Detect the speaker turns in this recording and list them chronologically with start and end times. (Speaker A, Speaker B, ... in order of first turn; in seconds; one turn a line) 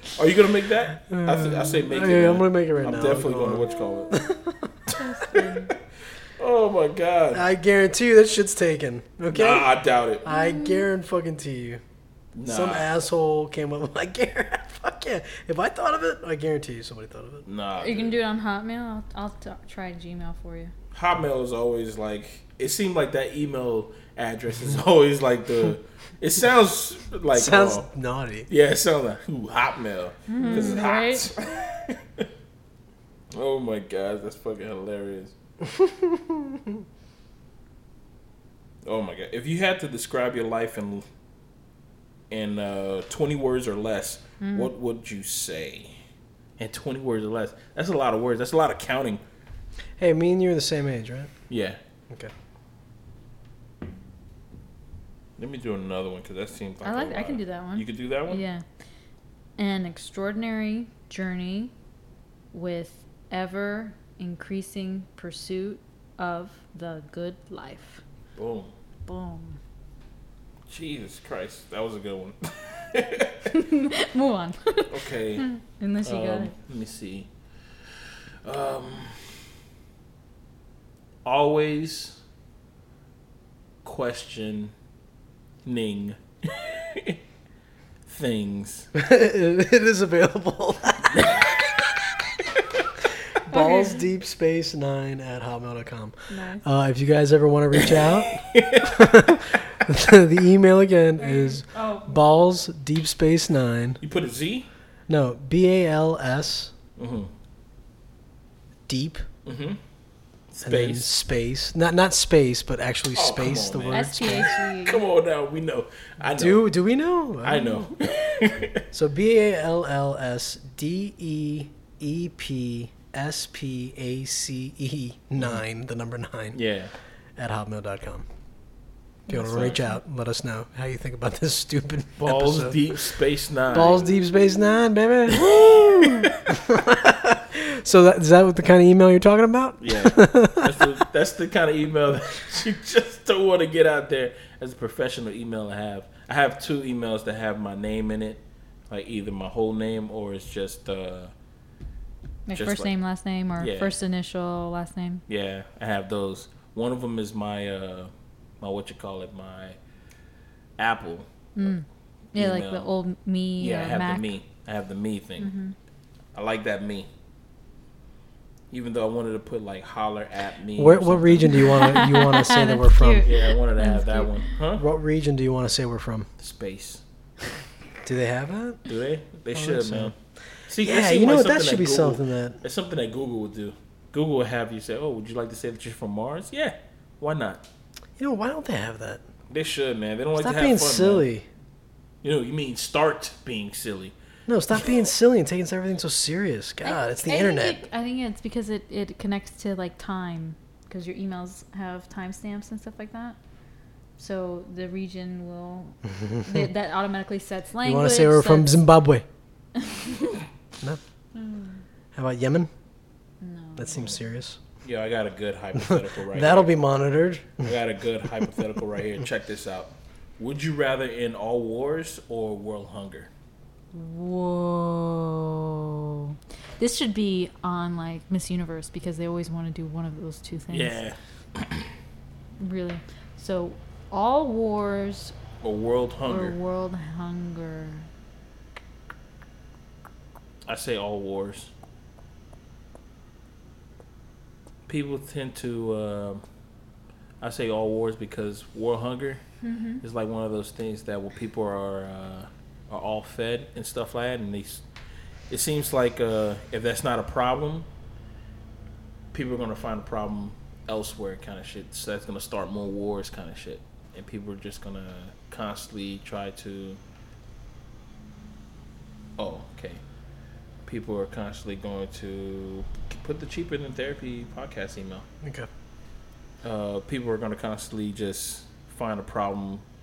Speaker A: 0.1-4.2
Speaker B: 1.1-4.8
Speaker C: 4.9-5.7
Speaker A: 6.4-7.4
Speaker B: 7.3-9.7
Speaker A: 9.3-10.2
Speaker B: 10.2-11.8
Speaker C: 10.3-10.9
Speaker A: 12.4-12.9
Speaker B: 12.4-17.4
Speaker A: 17.5-18.2
Speaker C: 17.8-20.7
Speaker A: 20.9-27.8
Speaker B: 27.3-28.5
Speaker A: 28.5-32.2
Speaker C: 30.3-31.3
Speaker A: 33.3-35.3
Speaker B: 35.8-36.8
Speaker A: 38.9-41.0
Speaker A: 42.3-46.0
Speaker C: 44.4-44.7
Speaker A: 46.6-49.2
Speaker B: 50.0-51.3
Speaker A: 51.5-51.8
Speaker A: 55.4-58.4
Speaker C: 56.8-58.6
Speaker C: 59.6-61.7
Speaker C: 62.5-68.0
Speaker A: 68.4-68.7
Speaker C: 69.1-69.6
Speaker A: 70.7-73.4
Speaker C: 73.5-76.5
Speaker A: 74.9-75.5
Speaker A: 76.0-77.3
Speaker A: 78.5-79.4
Speaker A: 81.2-82.2
Speaker A: 83.8-84.7
Speaker A: 85.7-87.2
Speaker A: 88.1-88.9
Speaker B: 88.9-91.2
Speaker A: 91.2-91.5
Speaker B: 93.5-104.0
Speaker C: 93.5-94.0
Speaker C: 96.3-96.6
Speaker A: 98.3-99.4
Speaker C: 101.2-102.1
Speaker A: 104.0-104.7
Speaker B: 105.1-106.7
Speaker A: 107.0-107.3
Speaker B: 108.9-109.3
Speaker A: 109.5-109.8
Speaker A: 110.5-111.1
Speaker B: 110.7-114.5
Speaker A: 113.1-116.7
Speaker C: 113.9-115.0
Speaker B: 116.3-118.0
Speaker A: 117.4-118.8
Speaker B: 118.9-126.6
Speaker A: 126.5-126.9
Speaker B: 127.4-128.2
Speaker B: 129.3-133.0
Speaker A: 129.4-129.8
Speaker A: 132.2-134.2
Speaker B: 133.7-141.0
Speaker A: 135.3-136.4
Speaker A: 139.8-151.3
Speaker C: 152.5-155.2
Speaker A: 152.6-152.9
Speaker A: 153.6-153.9
Speaker A: 155.3-158.1
Speaker A: 158.6-159.8
Speaker A: 160.8-161.7
Speaker C: 161.6-164.3
Speaker A: 162.3-162.9
Speaker A: 163.6-165.5
Speaker C: 165.4-165.7
Speaker A: 166.3-167.1
Speaker A: 168.7-171.8
Speaker B: 170.8-173.3
Speaker C: 171.5-174.3
Speaker A: 173.2-174.8
Speaker B: 174.8-176.3
Speaker A: 176.4-177.0
Speaker B: 178.0-178.8
Speaker A: 178.9-180.1
Speaker B: 179.5-180.1
Speaker A: 180.7-187.6
Speaker B: 180.8-182.6
Speaker B: 188.2-189.2
Speaker A: 189.5-191.3
Speaker B: 190.4-191.5
Speaker A: 192.2-194.1
Speaker B: 194.5-197.8
Speaker C: 196.8-203.4
Speaker C: 204.2-208.8
Speaker B: 207.8-209.3
Speaker C: 209.8-210.4
Speaker C: 211.3-211.8
Speaker B: 212.1-212.7
Speaker C: 213.4-214.1
Speaker B: 213.8-214.6
Speaker A: 214.8-216.7
Speaker B: 215.8-217.7
Speaker A: 217.6-223.3
Speaker C: 223.9-231.0
Speaker A: 230.7-231.9
Speaker C: 232.6-235.4
Speaker A: 235.6-236.6
Speaker C: 236.2-238.1
Speaker A: 240.7-241.7
Speaker A: 244.9-246.4
Speaker A: 247.4-249.4
Speaker C: 249.6-250.0
Speaker A: 250.0-254.8
Speaker A: 255.5-257.9
Speaker A: 259.3-267.0
Speaker A: 269.4-270.0
Speaker A: 270.9-275.2
Speaker B: 275.4-275.7
Speaker A: 276.6-279.8